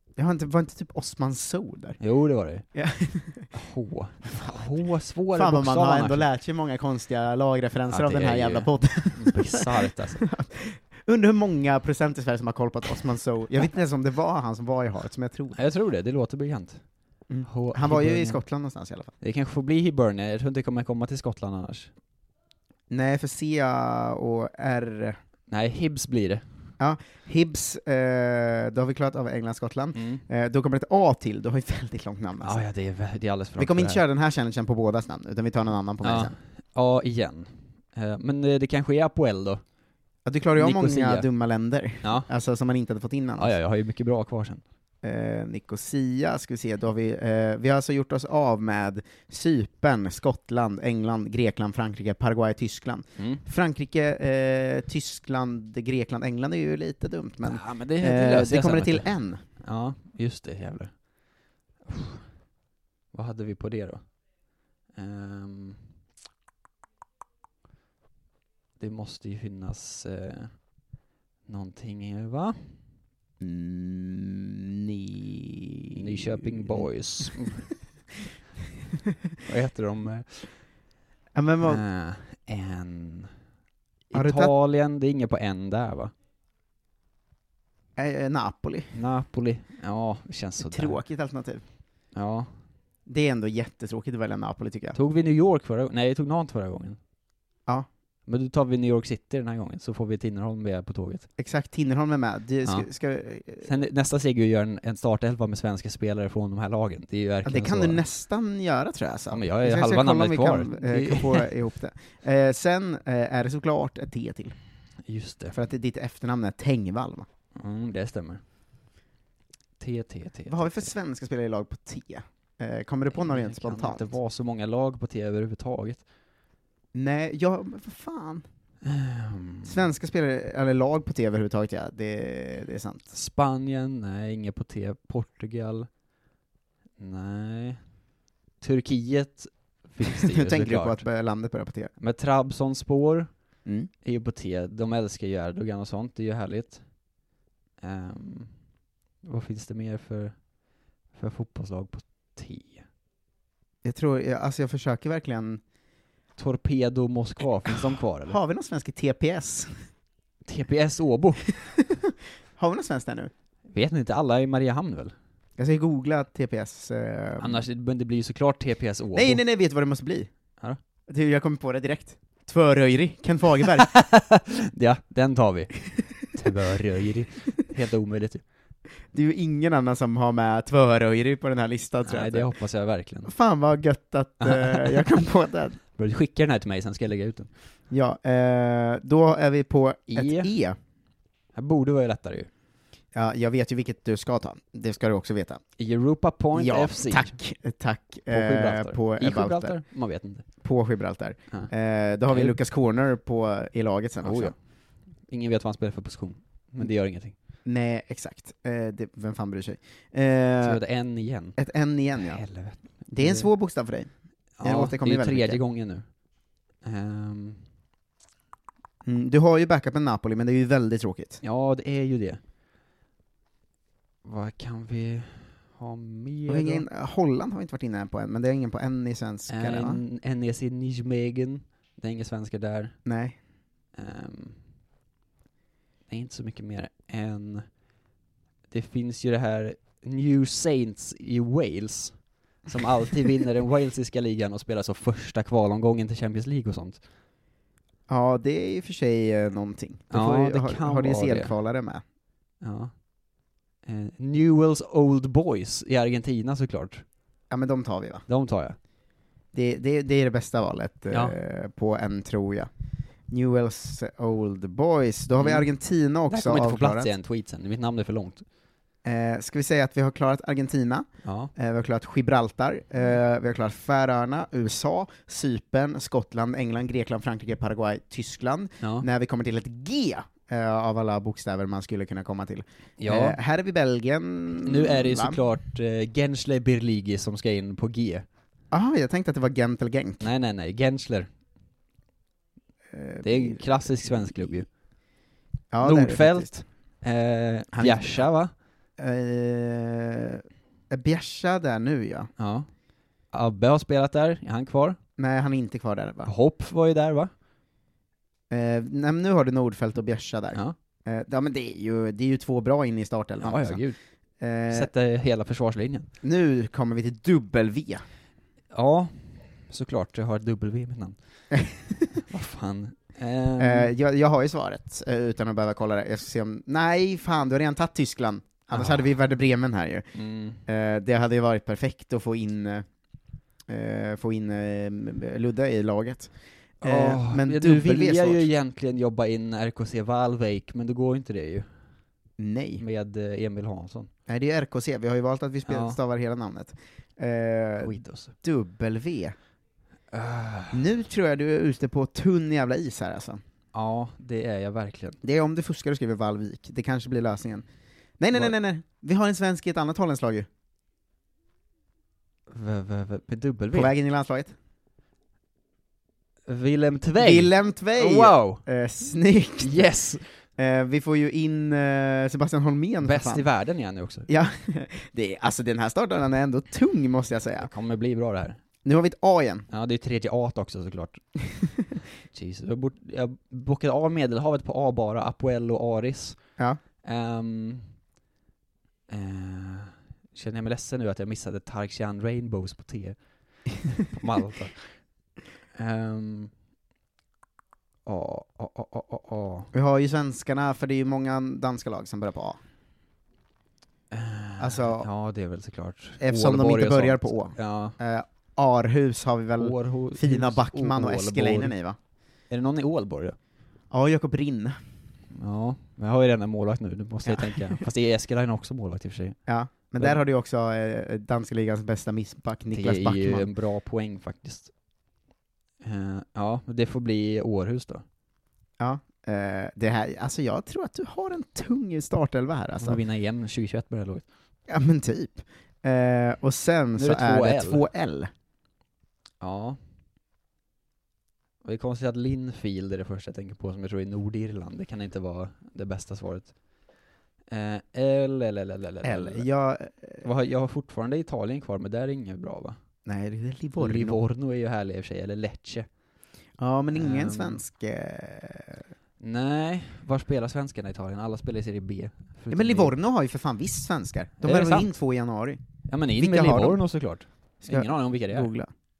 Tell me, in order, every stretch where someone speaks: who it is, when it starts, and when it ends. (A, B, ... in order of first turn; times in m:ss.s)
0:00.2-0:02.0 A
0:02.0-0:02.6 B
0:02.7-0:03.5 A
0:03.5-0:06.2 B
0:05.3-0:15.6 A
0:07.9-0:10.2 B
0:15.5-0:16.8 B
0:17.3-0:19.1 A
0:17.4-0:18.4 B
0:19.2-0:21.9 B
0:22.9-0:25.2 A
0:25.5-0:26.4 B
0:26.8-0:32.6 A
0:29.9-0:30.2 B
0:32.4-0:34.0 B
0:33.6-0:36.3 A
0:36.0-0:39.6 B
0:40.2-0:43.5 A
0:40.6-0:41.3 B
0:42.0-0:42.3 B
0:43.4-0:44.6 B
0:45.0-0:59.4 A
0:53.2-0:53.4 B
0:57.4-1:01.0 B
1:01.8-1:02.4 B
1:03.1-1:04.1 B
1:04.9-1:05.8 B
1:08.8-1:10.7 B
1:11.4-1:12.8 B
1:13.4-1:17.5 A
1:15.9-1:17.7 B
1:19.4-1:20.6 B
1:21.3-1:21.8 A
1:21.6-1:23.3 B
1:24.1-1:26.1 B
1:24.1-1:24.5 A
1:28.0-1:28.9 A
1:28.9-1:31.0 B
1:30.6-1:31.6 A
1:32.1-1:32.5 B
1:33.0-1:35.0 A
1:34.9-1:37.0 B
1:38.3-1:41.3 B
1:41.4-1:43.7 A
1:43.6-1:48.0 B
1:47.4-1:54.5 A
1:49.3-1:51.5 B
1:55.0-1:55.5 B
1:55.5-1:57.3 A
1:57.5-1:58.4 B
1:59.8-2:00.9 B
2:00.5-2:04.1 A
2:03.1-2:06.0 B
2:06.9-2:08.4 A
2:08.8-2:09.8 B
2:09.6-2:13.0 A
2:13.1-2:15.9 B
2:17.0-2:17.9 B
2:18.6-2:21.0 B
2:20.0-2:21.9 A
2:22.0-2:23.3 B
2:23.6-2:23.9 A
2:24.0-2:26.8 B
2:27.8-2:28.5 B
2:29.2-2:30.4 B
2:31.1-2:32.8 B
2:33.8-2:35.6 A
2:36.4-2:38.4 B
2:37.6-2:39.7 A
2:40.4-2:41.5 B
2:42.6-2:43.3 A
2:43.7-2:45.1 B
2:45.6-2:47.6 A
2:47.4-2:49.4 B
2:49.1-2:50.3 A
2:51.1-2:53.9 A
2:53.8-2:58.4 B
2:59.1-3:02.5 A
3:02.0-3:03.3 B
3:03.2-3:05.8 A
3:04.4-3:05.1 B
3:05.9-3:07.5 B
3:07.9-3:10.8 A
3:10.1-3:10.5 B
3:11.5-3:12.5 B
3:13.1-3:15.6 A
3:15.8-3:17.4 B
3:16.5-3:19.8 A
3:18.3-3:20.4 B
3:20.6-3:24.5 A
3:22.3-3:22.6 B
3:24.2-3:24.5 B
3:25.2-3:27.3 B
3:27.6-3:30.8 A
3:30.6-3:31.6 B
3:31.6-3:32.4 A
3:32.2-3:33.5 B
3:33.1-3:35.6 A
3:34.6-3:36.1 B
3:36.8-3:37.6 B
3:39.0-3:41.4 A
3:41.4-3:42.4 B
3:44.2-3:46.8 B
3:46.5-3:50.0 A
3:49.5-3:53.0 B
3:53.0-3:53.4 A
3:53.9-3:54.6 B
3:56.1-3:57.6 B
3:58.7-4:07.0 B
4:08.1-4:12.0 A
4:10.1-4:11.5 B
4:12.6-4:13.0 B
4:13.8-4:17.0 B
4:17.5-4:18.2 A
4:18.3-4:18.8 B
4:19.5-4:22.7 A
4:21.1-4:21.4 B
4:23.3-4:27.1 A
4:25.4-4:25.7 B
4:26.3-4:28.4 B
4:29.0-4:45.4 A
4:31.2-4:31.5 B
4:38.8-4:39.0 B
4:43.0-4:43.4 B
4:44.6-4:48.2 B
4:48.7-4:50.3 A
4:50.2-4:51.3 B
4:52.9-4:53.9 A
4:53.2-4:54.7 B
4:55.7-4:56.5 A
4:55.8-4:58.5 B
4:57.7-4:58.2 A
4:59.0-5:02.3 A
5:02.4-5:02.7 B
5:03.3-5:05.0 B
5:05.2-5:06.3 A
5:06.2-5:07.3 B
5:08.5-5:13.8 A
5:13.4-5:14.0 B
5:14.4-5:14.9 A
5:14.7-5:16.1 B
5:16.2-5:18.0 A
5:18.7-5:21.2 B
5:21.5-5:22.2 A
5:22.2-5:23.9 B
5:23.6-5:30.0 A
5:28.7-5:29.1 B
5:30.1-5:30.6 B
5:30.6-5:32.9 A
5:33.7-5:38.5 A
5:36.8-5:41.7 B
5:42.4-5:42.8 A
5:42.8-5:44.1 B
5:44.3-5:49.3 A
5:45.7-5:46.0 B
5:47.8-5:48.3 B
5:50.1-5:50.8 B
5:50.7-5:53.4 A
5:53.7-5:55.2 B
5:55.2-5:57.6 A
5:58.2-6:00.5 A
6:02.5-6:03.9 B
6:03.7-6:04.5 A
6:06.5-6:08.6 B
6:07.2-6:09.9 A
6:09.6-6:10.2 B
6:10.6-6:13.4 A
6:13.0-6:14.3 B
6:14.3-6:17.7 A
6:17.6-6:18.6 B
6:18.8-6:19.7 A
6:19.7-6:21.2 B
6:22.3-6:26.4 B
6:27.0-6:27.8 B
6:29.1-6:33.2 B
6:34.0-6:35.0 B
6:35.7-6:36.5 B
6:38.0-6:39.7 B
6:39.7-6:42.6 A
6:44.1-6:48.0 B
6:44.6-6:45.1 A
6:46.2-6:52.0 A
6:49.6-6:51.7 B
6:52.5-6:53.4 B
6:53.9-6:54.8 A
6:55.3-6:59.4 B
6:57.2-6:57.8 A
6:59.5-7:03.5 A
7:02.7-7:04.7 B
7:05.8-7:08.0 B
7:08.8-7:13.0 A
7:12.8-7:14.2 B
7:14.7-7:18.3 A
7:17.0-7:17.8 B
7:19.4-7:19.8 B
7:21.6-7:26.6 B
7:27.5-7:29.5 B
7:29.0-7:30.2 A
7:30.2-7:32.8 B
7:33.0-7:34.2 A
7:33.8-7:35.9 B
7:36.6-7:38.8 A
7:36.9-7:37.6 B
7:39.2-7:42.9 B
7:42.5-7:45.6 A
7:44.4-7:44.9 B
7:45.9-7:48.5 B
7:46.2-7:46.8 A
7:47.6-7:48.7 A